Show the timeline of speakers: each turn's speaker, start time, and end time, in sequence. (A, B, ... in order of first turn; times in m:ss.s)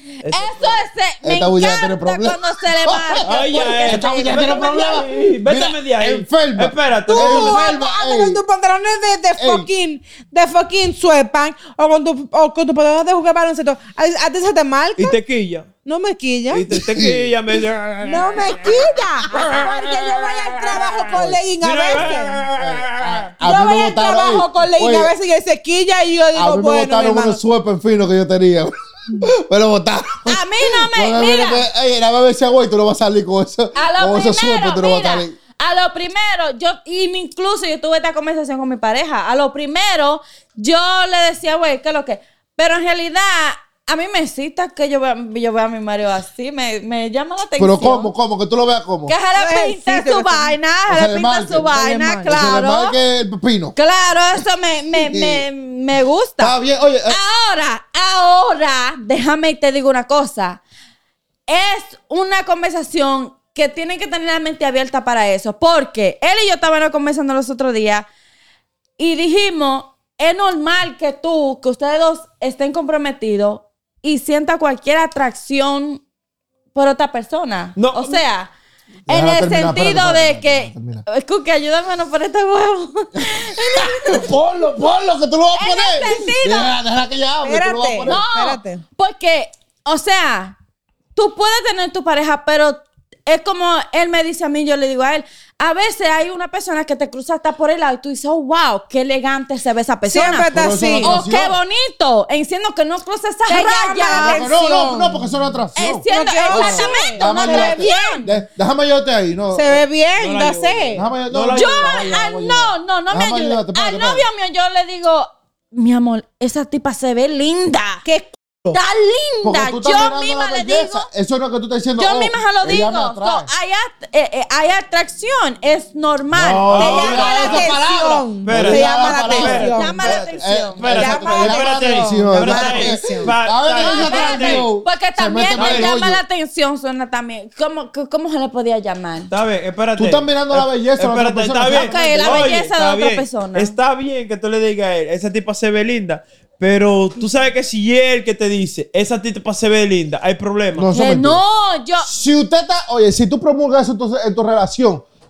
0:00.2-0:00.8 A
0:00.3-0:04.6 B
0:01.2-0:03.3 C
0:03.2-0:07.7 A
0:03.8-0:08.4 C
0:07.1-0:15.2 D
0:09.4-0:09.7 C
0:15.0-0:15.7 A
0:15.8-0:16.7 D
0:16.5-0:23.3 A
0:16.7-0:17.3 C
0:18.0-0:22.5 D
0:21.1-0:21.4 C
0:22.6-0:25.1 C
0:23.4-0:27.4 D
0:26.4-0:35.4 C
0:30.3-0:31.7 B
0:33.8-0:48.1 B
0:47.6-0:49.2 C
0:49.1-0:53.0 B
0:49.3-0:50.5 D
0:50.9-0:51.7 C
0:51.6-0:52.4 D
0:52.3-0:53.8 C
0:53.8-1:00.6 B
0:55.0-0:55.5 C
0:56.4-0:57.2 C
1:01.5-1:08.1 B
1:09.0-1:16.0 B
1:16.7-1:18.5 B
1:17.8-1:18.2 A
1:19.1-1:21.0 C
1:19.1-1:24.3 B
1:23.2-1:28.2 C
1:25.5-1:26.8 B
1:27.4-1:28.8 D
1:28.0-1:30.6 B
1:31.2-1:44.5 B
1:40.1-1:41.1 D
1:40.5-1:41.6 C
1:43.5-1:45.3 D
1:44.1-1:49.8 C
1:45.8-1:48.3 B
1:46.1-1:48.3 D
1:49.5-1:51.1 D
1:50.2-1:52.2 A
1:50.9-1:54.3 C
1:51.5-1:58.0 B
1:58.0-1:58.8 D
1:58.7-2:01.1 B
1:59.4-2:03.5 C
2:02.0-2:07.7 B
2:06.3-2:16.2 C
2:06.6-2:07.6 A
2:06.8-2:10.2 D
2:08.4-2:14.7 A
2:09.7-2:11.0 B
2:10.9-2:13.3 D
2:13.8-2:19.3 B
2:15.6-2:15.9 A
2:19.3-2:30.9 A
2:20.0-2:22.5 C
2:21.7-2:23.8 B
2:30.7-2:31.4 C
2:30.9-2:32.1 B
2:32.0-2:35.0 C